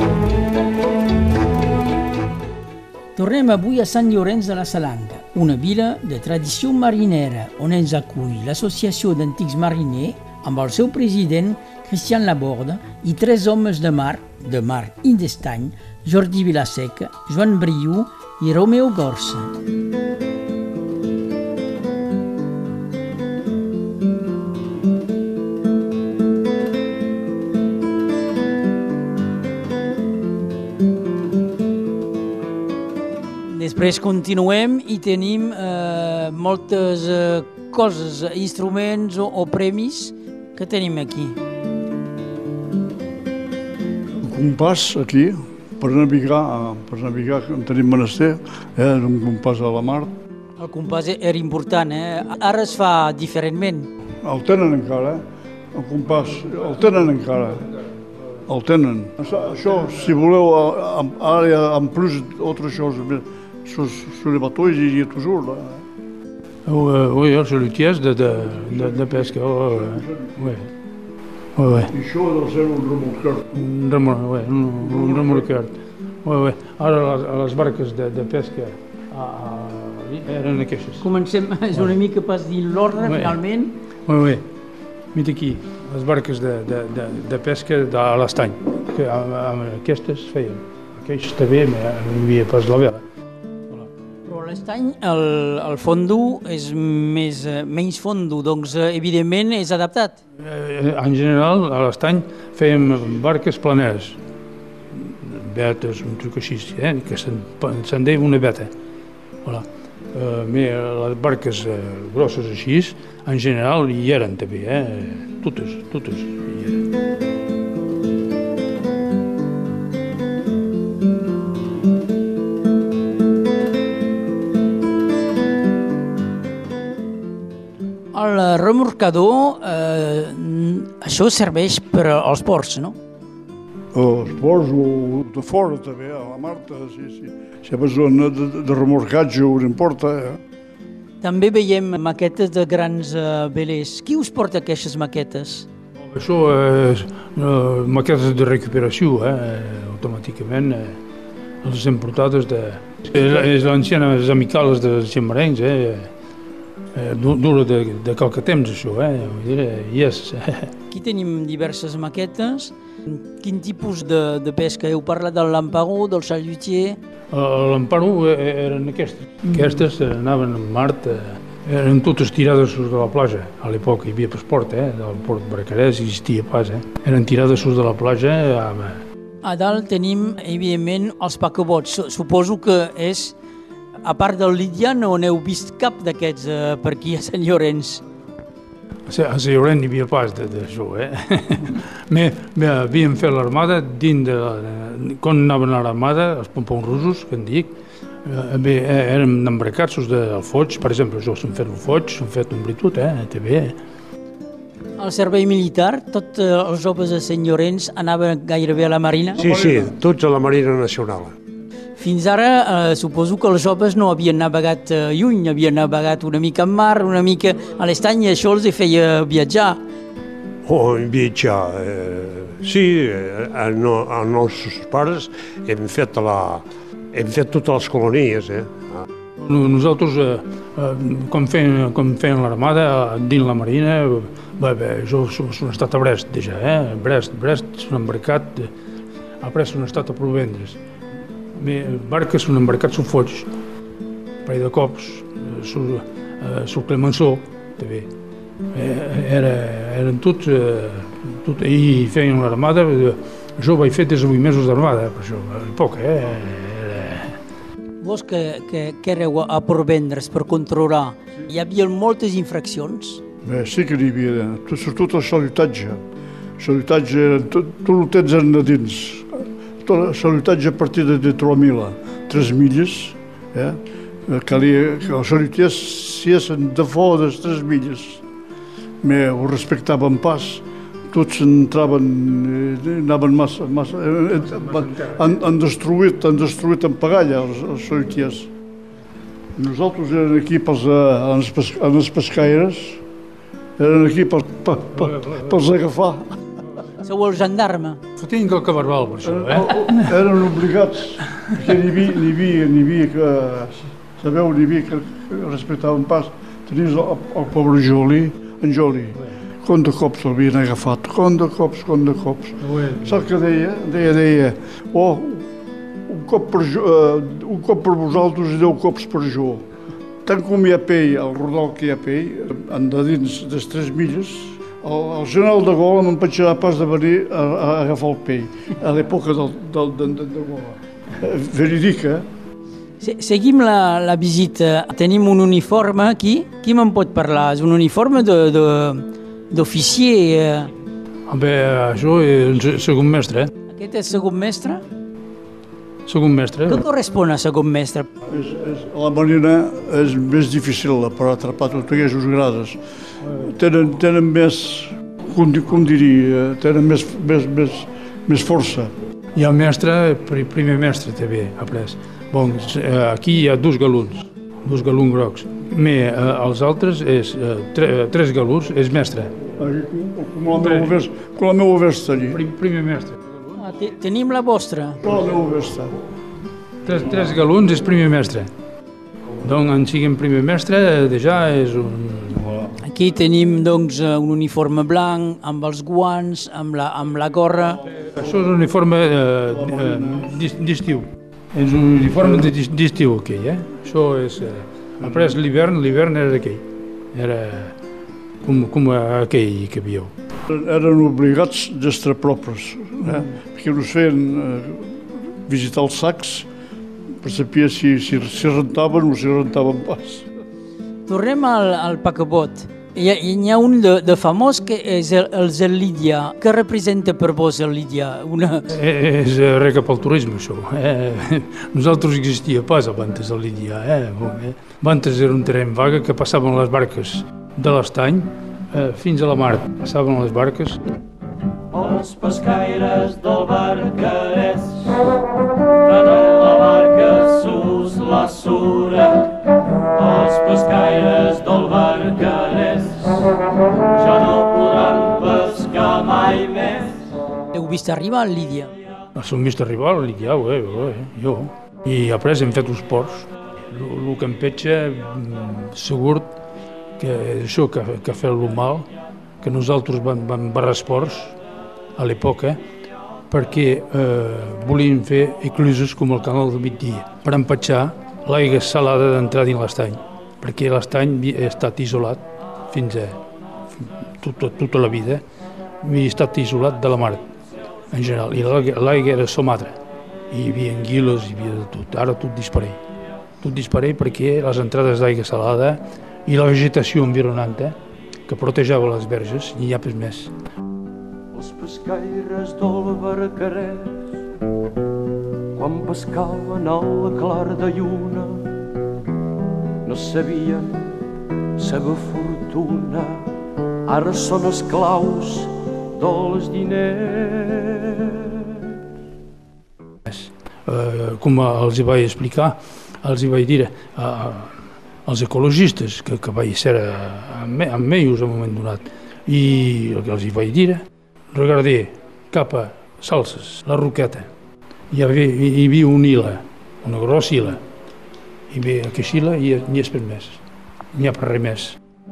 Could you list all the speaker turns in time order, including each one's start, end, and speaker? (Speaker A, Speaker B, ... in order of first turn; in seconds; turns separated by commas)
Speaker A: 3.2-19.6, Speaker A: 33.4-41.4, Speaker B: 44.1-50.1, Speaker A: 50.6-53.9, Speaker B: 54.2-57.7, Speaker B: 58.5-65.8, Speaker C: 66.7-70.7, Speaker B: 68.5-70.4, Speaker C: 71.6-71.9, Speaker B: 71.9-73.5, Speaker C: 73.5-75.7, Speaker B: 74.8-75.5, Speaker C: 76.2-81.1, Speaker A: 81.0-83.8, Speaker C: 83.0-83.4, Speaker C: 84.1-84.5, Speaker C: 85.1-93.0, Speaker A: 94.2-100.2, Speaker C: 100.4-104.2, Speaker C: 104.9-108.7, Speaker C: 109.4-116.8, Speaker A: 128.1-133.0, Speaker B: 133.9-140.4, Speaker A: 141.2-145.7, Speaker C: 146.0-151.0, Speaker C: 151.6-156.1, Speaker C: 156.9-160.7, Speaker A: 160.9-167.0, Speaker C: 167.3-179.0, Speaker A: 179.4-183.4, Speaker A: 184.0-188.0, Speaker C: 189.1-197.7, Speaker C: 198.2-203.8, Speaker A: 205.0-209.4, Speaker D: 209.4-211.3, Speaker B: 209.4-210.0, Speaker A: 212.0-219.8, Speaker D: 220.6-229.0, Speaker C: 229.4-238.7, Speaker C: 239.4-240.8, Speaker C: 241.6-243.5, Speaker C: 244.4-248.1, Speaker C: 248.7-257.4, Speaker A: 258.0-263.2, Speaker B: 263.4-266.0, Speaker B: 266.6-278.2, Speaker B: 279.0-288.5, Speaker C: 284.5-285.3, Speaker B: 289.6-293.0, Speaker B: 293.8-296.4, Speaker A: 296.9-298.0, Speaker C: 298.2-300.1, Speaker B: 299.2-315.5, Speaker C: 312.6-313.3, Speaker B: 316.1-319.6, Speaker B: 320.2-332.3, Speaker A: 333.0-340.7, Speaker C: 341.3-343.5, Speaker A: 343.7-344.8, Speaker C: 346.1-346.9, Speaker A: 346.7-348.1, Speaker B: 348.2-358.9, Speaker C: 359.4-369.4, Speaker B: 369.6-372.4, Speaker C: 370.5-371.0, Speaker C: 372.3-373.4, Speaker A: 373.6-375.0, Speaker B: 375.0-375.9, Speaker C: 376.8-378.5, Speaker C: 379.4-382.5, Speaker B: 382.4-382.7, Speaker A: 382.8-387.8, Speaker C: 388.0-397.8, Speaker B: 389.6-390.3, Speaker C: 398.4-400.1, Speaker B: 400.5-406.5, Speaker B: 407.2-410.3, Speaker A: 411.1-418.7, Speaker C: 418.7-430.8, Speaker E: 431.7-435.2, Speaker E: 435.8-443.3, Speaker E: 443.9-447.0, Speaker A: 447.5-448.8, Speaker C: 449.1-456.3, Speaker C: 457.0-458.9, Speaker C: 459.4-461.4, Speaker C: 462.0-462.6, Speaker C: 463.3-473.2, Speaker C: 473.7-475.2, Speaker C: 475.8-477.3, Speaker C: 477.9-479.8, Speaker C: 480.3-482.8, Speaker C: 483.4-487.8, Speaker C: 488.3-490.3, Speaker E: 491.3-494.1, Speaker E: 495.5-498.6, Speaker E: 499.8-501.0, Speaker E: 501.6-508.8, Speaker C: 510.1-514.5, Speaker C: 515.1-524.3, Speaker C: 524.9-527.6, Speaker C: 528.5-530.4, Speaker C: 530.9-531.8